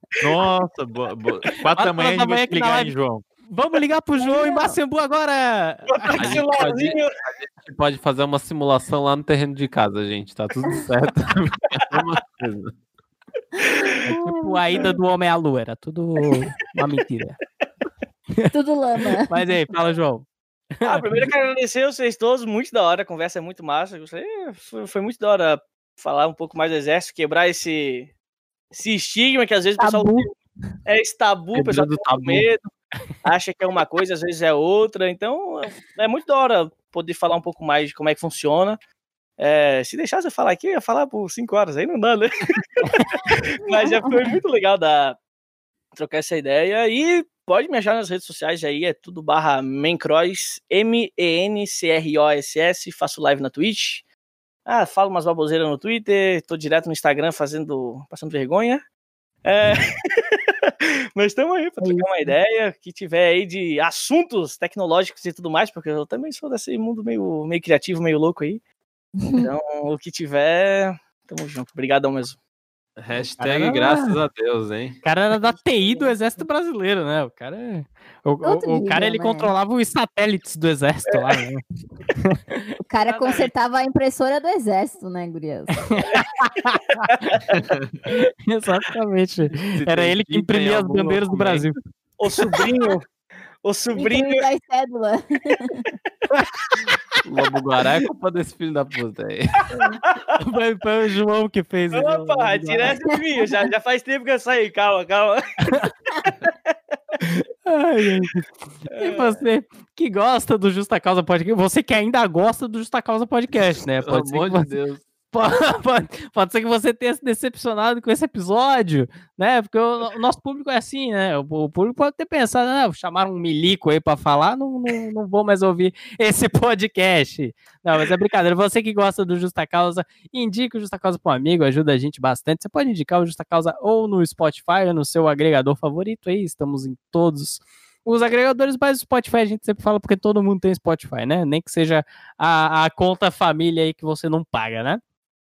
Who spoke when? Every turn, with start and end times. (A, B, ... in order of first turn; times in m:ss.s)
0:00.2-0:03.2 A
0:01.8-0:02.9 B
0:03.5-0:06.4 B
0:04.2-0:04.8 C
0:06.0-0:07.1 D
0:06.2-0:12.8 E
0:13.7-0:14.0 D
0:14.0-0:17.4 B
0:14.1-0:14.6 C
0:18.5-0:19.3 C
0:19.3-0:20.3 B
0:20.8-0:21.3 B
0:20.8-0:28.1 D
0:28.7-0:30.3 D
0:29.8-0:30.3 C
0:30.9-0:32.7 D
0:31.5-0:32.5 E
0:33.2-0:38.8 D
0:39.4-0:45.2 D
0:43.7-0:44.4 C
0:46.0-0:54.0 D
0:54.7-0:58.8 D
0:59.4-1:08.6 D
1:01.8-1:02.3 C
1:09.2-1:09.5 C
1:09.4-1:12.4 D
1:13.0-1:15.0 E
1:13.1-1:14.2 B
1:15.0-1:22.6 B
1:18.4-1:19.5 C
1:22.9-1:25.9 C
1:23.0-1:23.5 D
1:25.9-1:27.4 B
1:28.1-1:31.8 B
1:29.7-1:31.7 E
1:32.2-1:33.1 D
1:33.6-1:34.4 D
1:33.9-1:35.9 C
1:37.2-1:39.7 E
1:40.0-1:40.3 D
1:40.4-1:43.0 B
1:41.9-1:45.4 D
1:47.2-1:54.7 B
1:48.9-1:49.4 D
1:54.0-1:55.0 E
1:55.3-2:25.0 B